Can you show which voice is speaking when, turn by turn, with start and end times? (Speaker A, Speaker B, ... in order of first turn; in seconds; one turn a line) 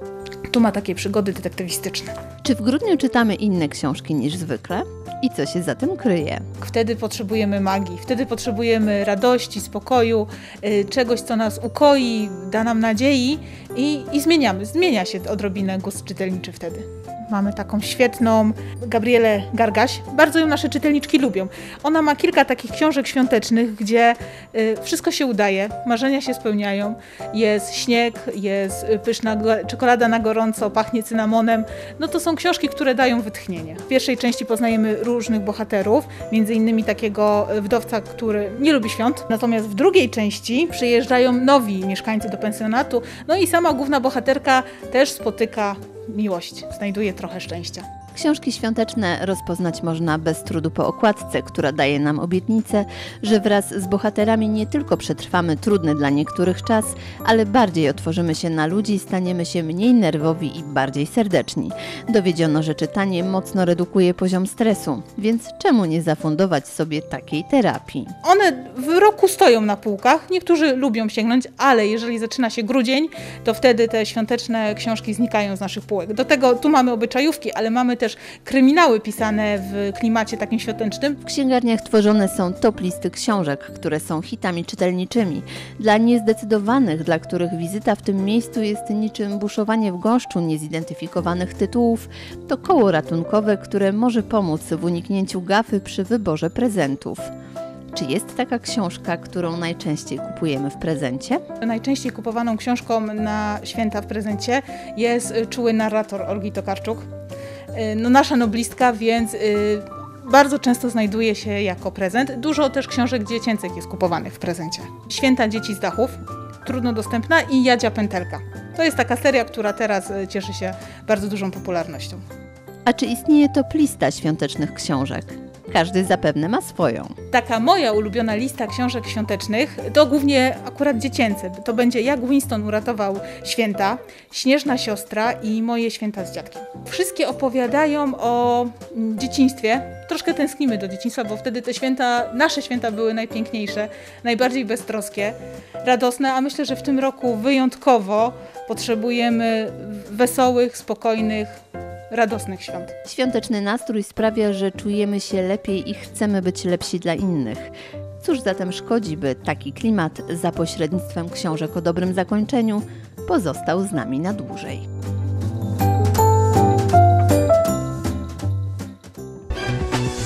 Speaker A: 0.5-2.1
Speaker B: 2.4-6.4
Speaker A: 6.6-47.8
Speaker B: 48.1-68.1
Speaker A: 68.2-81.2
Speaker B: 81.2-97.3
Speaker B: 97.9-101.4
Speaker A: 101.6-107.0
Speaker A: 107.7-122.2
Speaker B: 122.8-127.1
Speaker A: 127.3-151.5
Speaker A: 152.1-152.9
Speaker B: 153.1-164.8